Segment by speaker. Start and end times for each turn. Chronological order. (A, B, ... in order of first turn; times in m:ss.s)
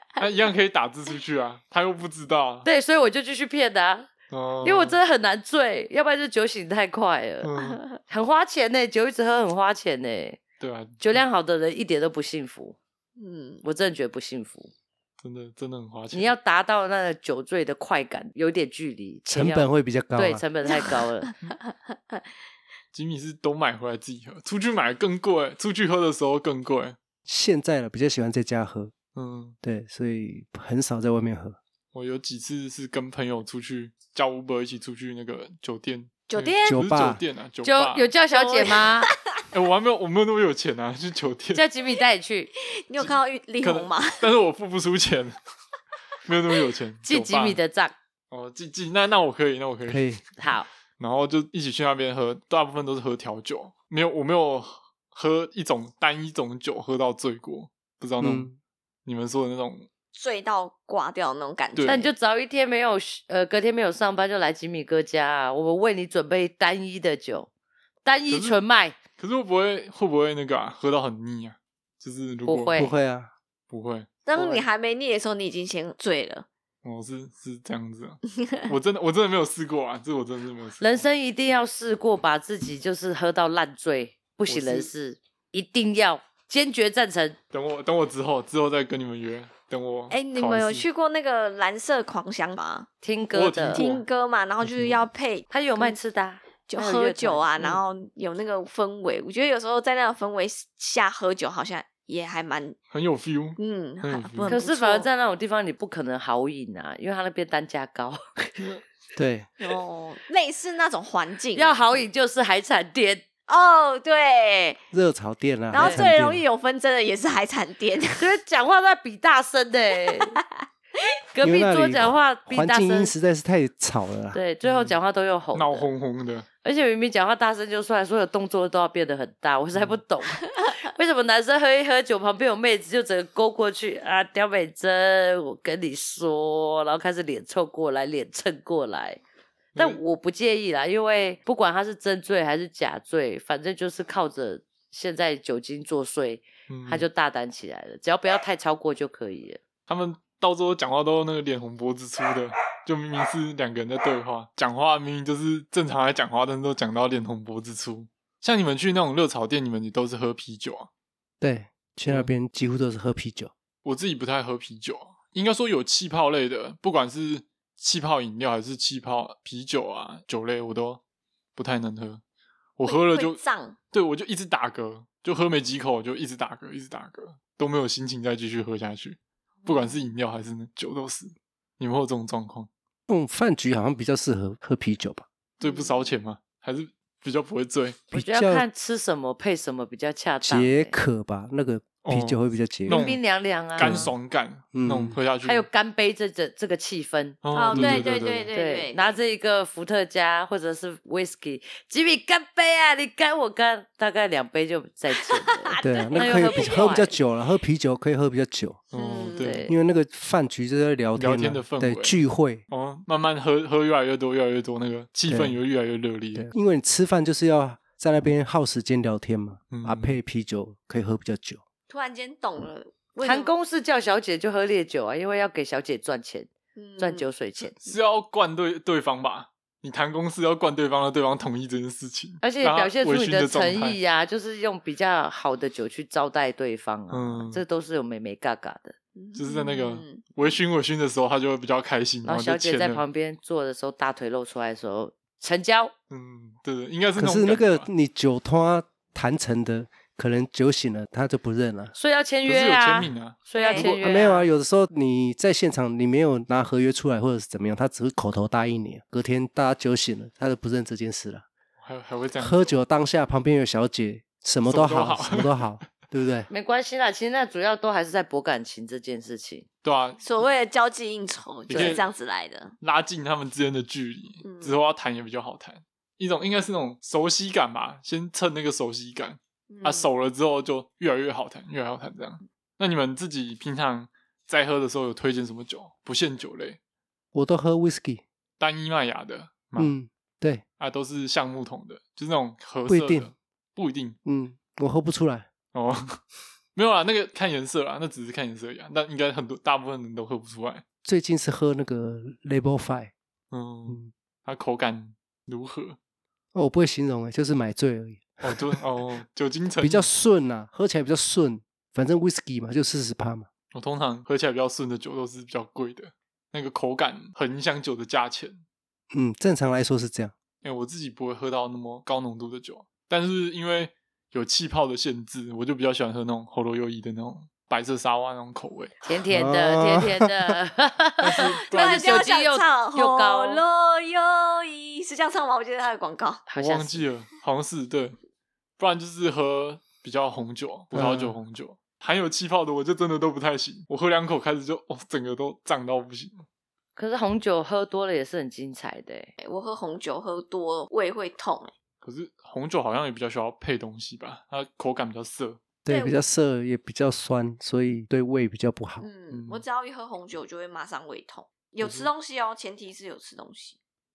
0:00.2-0:02.7 A
0:02.6-0:04.1 B
0:04.3-0:05.0 A
0:04.6-0:07.5 B
0:07.4-0:07.8 A
0:08.0-0:10.4 B
0:10.6-0:11.2 A
0:11.0-0:12.8 B
0:13.2-0:13.6 C
0:13.6-0:14.7 B
0:15.2-0:16.3 A
0:16.1-0:21.3 B
0:19.3-0:20.4 D
0:20.6-0:21.3 C
0:22.9-0:27.0 A
0:27.2-0:28.9 D
0:29.1-0:29.6 A
0:29.6-0:31.6 D
0:31.9-0:38.1 A
0:36.3-0:36.8 C
0:36.7-0:37.2 D
0:37.6-0:39.1 B
0:38.3-0:39.1 C
0:39.5-0:41.6 A
0:41.5-0:42.5 B
0:42.9-0:44.2 C
0:43.0-0:45.4 A
0:46.2-0:47.6 A
0:47.0-0:48.0 B
0:48.3-0:58.5 A
0:49.9-0:50.2 D
0:50.4-0:50.7 B
0:58.2-0:58.6 D
0:59.1-0:59.9 A
1:00.1-1:02.1 C
1:01.8-1:02.1 A
1:01.8-1:07.5 B
1:08.0-1:09.0 B
1:08.3-1:08.6 A
1:09.2-1:12.8 A
1:12.5-1:12.9 B
1:12.7-1:13.3 D
1:13.7-1:14.1 A
1:14.2-1:16.5 C
1:14.4-1:14.6 B
1:16.8-1:21.0 A
1:20.8-1:27.4 B
1:24.5-1:24.9 A
1:27.5-1:30.9 A
1:30.1-1:32.9 C
1:33.0-1:33.8 B
1:33.3-1:34.0 A
1:33.7-1:36.0 C
1:35.5-1:37.8 B
1:36.7-1:42.8 C
1:42.9-1:44.6 A
1:43.6-1:45.1 C
1:44.5-1:48.6 B
1:49.2-1:49.5 D
1:49.6-1:52.0 C
1:51.5-1:53.2 B
1:53.5-1:54.8 C
1:54.9-1:56.4 D
1:55.7-1:58.3 C
1:55.7-1:56.1 B
1:58.2-2:00.4 B
2:01.3-2:03.1 B
2:01.4-2:04.4 D
2:04.3-2:05.9 B
2:04.6-2:05.0 A
2:05.5-2:06.5 A
2:06.6-2:19.2 B
2:19.8-2:20.0 A
2:19.8-2:29.6 B
2:26.7-2:27.1 A
2:29.9-2:40.9 A
2:41.4-2:43.5 D
2:42.1-2:42.3 A
2:43.8-2:51.0 A
2:51.6-2:52.2 A
2:52.8-2:53.4 A
2:52.8-2:53.8 C
2:53.9-3:02.7 A
2:59.6-3:00.0 C
3:03.1-3:05.2 D
3:05.6-3:08.0 A
3:05.6-3:06.0 C
3:08.1-3:08.6 D
3:08.1-3:11.0 B
3:10.4-3:13.0 D
3:12.0-3:13.2 A
3:12.9-3:14.1 B
3:13.7-3:15.6 A
3:13.8-3:14.1 D
3:14.7-3:15.2 D
3:15.4-3:17.4 B
3:17.4-3:18.5 A
3:17.5-3:19.2 C
3:17.7-3:18.1 D
3:18.5-3:27.2 B
3:25.6-3:26.9 C
3:25.8-3:28.8 D
3:28.9-3:29.6 A
3:28.9-3:29.6 C
3:29.4-3:29.8 B
3:29.7-3:32.6 D
3:31.2-3:32.2 A
3:32.7-3:36.5 A
3:35.3-3:35.6 D
3:36.4-3:41.6 D
3:39.7-3:40.2 A
3:41.9-3:43.5 C
3:43.2-3:47.8 B
3:46.8-3:47.3 C
3:47.8-3:54.0 A
3:52.4-3:59.0 B
3:57.1-3:57.6 A
3:59.2-4:00.2 C
3:59.4-4:03.0 A
4:02.2-4:05.9 B
4:06.1-4:07.9 A
4:07.2-4:12.0 D
4:12.0-4:14.5 B
4:12.4-4:13.9 A
4:13.6-4:13.9 C
4:13.8-4:21.5 D
4:21.8-4:22.8 A
4:22.4-4:26.5 D
4:24.6-4:25.7 A
4:26.5-4:29.6 B
4:29.8-4:30.2 A
4:30.2-4:32.8 C
4:31.7-4:32.0 A
4:31.7-4:32.0 B
4:32.8-4:46.8 A
4:34.4-4:34.8 C
4:39.7-4:40.1 C
4:47.3-4:48.2 D
4:48.6-4:50.0 A
4:49.8-4:50.6 D
4:50.8-4:54.2 A
4:52.9-4:53.3 D
4:54.2-4:55.5 D
4:55.7-4:56.2 A
4:56.8-5:00.8 A
5:01.0-5:03.1 D
5:03.5-5:06.0 A
5:06.5-5:08.8 D
5:08.4-5:10.1 A
5:09.8-5:13.5 D
5:13.7-5:18.6 A
5:19.1-5:20.3 D
5:20.6-5:28.9 A
5:29.0-5:33.6 B
5:29.3-5:30.6 D
5:31.2-5:32.2 A
5:31.4-5:36.4 C
5:36.5-5:37.1 B
5:36.6-5:38.2 A
5:38.8-5:46.4 A
5:40.9-5:41.4 D
5:47.0-5:49.3 B
5:49.4-5:51.7 C
5:52.0-5:55.6 A
5:55.8-5:59.0 D
5:55.9-5:56.2 C
5:59.0-6:03.8 C
5:59.3-5:59.6 A
6:01.8-6:02.1 A